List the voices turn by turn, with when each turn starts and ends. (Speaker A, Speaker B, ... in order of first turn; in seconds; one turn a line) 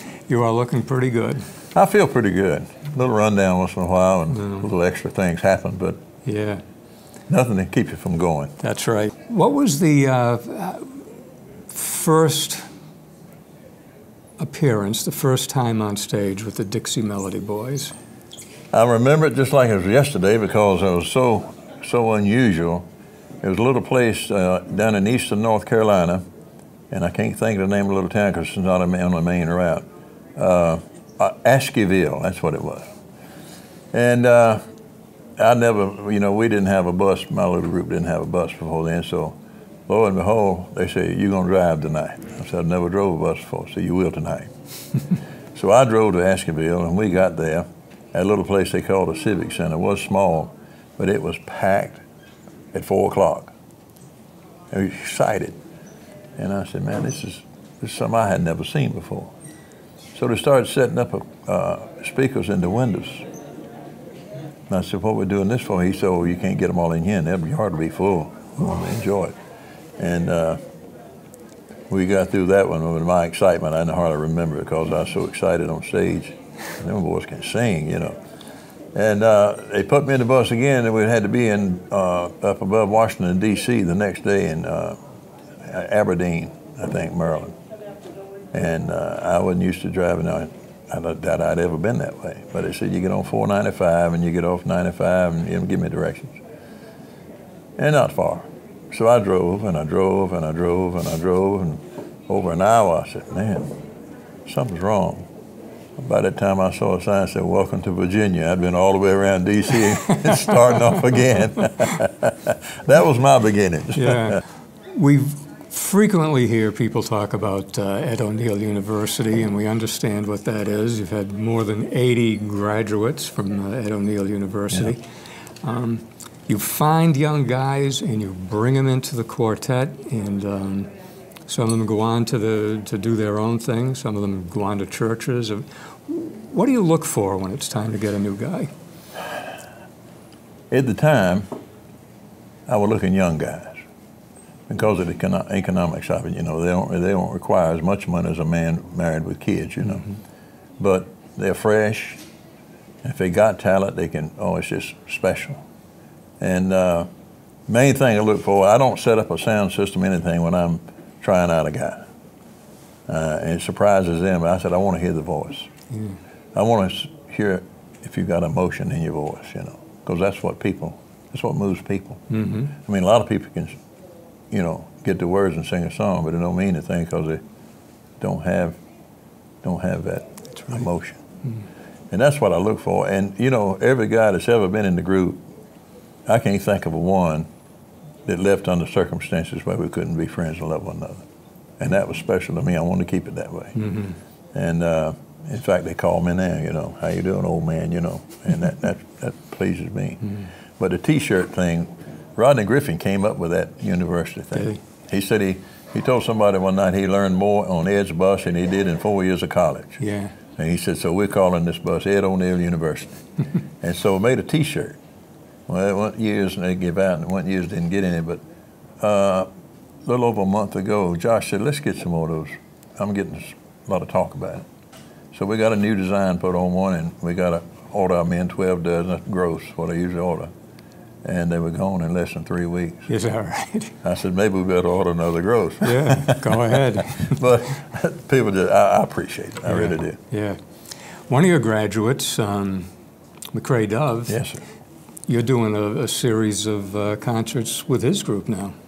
Speaker A: 0.3-1.4
Speaker B: 1.7-6.0
Speaker A: 4.3-4.7
Speaker A: 6.2-6.6
Speaker B: 7.3-8.5
Speaker A: 8.6-11.1
Speaker A: 11.7-12.6
Speaker A: 14.4-17.9
Speaker B: 18.7-22.8
Speaker B: 23.4-26.2
Speaker B: 26.9-29.8
Speaker B: 30.4-32.9
Speaker B: 33.9-34.6
Speaker B: 35.4-39.3
Speaker B: 39.9-44.5
Speaker B: 45.5-52.0
Speaker B: 52.7-53.5
Speaker B: 54.7-55.5
Speaker B: 56.4-59.3
Speaker B: 60.1-63.2
Speaker B: 64.7-69.3
Speaker B: 70.0-70.6
Speaker B: 71.9-78.2
Speaker B: 78.9-85.0
Speaker B: 85.6-87.5
Speaker B: 88.5-96.4
Speaker B: 97.8-103.7
Speaker B: 104.5-105.3
Speaker B: 106.0-114.4
Speaker A: 110.0-110.9
Speaker A: 113.9-125.0
Speaker A: 125.6-130.9
Speaker A: 131.5-138.7
Speaker B: 140.7-141.4
Speaker B: 142.7-143.8
Speaker B: 144.7-150.1
Speaker B: 150.8-152.2
Speaker B: 153.0-155.6
Speaker B: 156.4-157.1
Speaker B: 157.7-162.0
Speaker B: 163.1-165.7
Speaker A: 165.9-166.2
Speaker B: 166.5-173.7
Speaker A: 172.3-172.7
Speaker B: 174.5-177.4
Speaker B: 178.2-178.8
Speaker B: 179.6-181.2
Speaker A: 180.6-180.8
Speaker B: 182.1-185.4
Speaker B: 186.3-187.5
Speaker B: 188.2-191.2
Speaker B: 191.8-193.8
Speaker A: 193.8-194.2
Speaker B: 194.5-210.0
Speaker A: 210.0-210.3
Speaker B: 210.6-213.2
Speaker B: 213.8-215.0
Speaker B: 215.7-218.4
Speaker B: 219.0-219.5
Speaker B: 220.1-224.6
Speaker B: 225.3-230.5
Speaker B: 231.2-233.1
Speaker A: 233.1-233.9
Speaker B: 234.0-240.2
Speaker A: 235.8-237.4
Speaker A: 239.7-240.6
Speaker A: 241.3-242.9
Speaker A: 243.5-244.4
Speaker B: 244.3-244.6
Speaker A: 245.3-248.7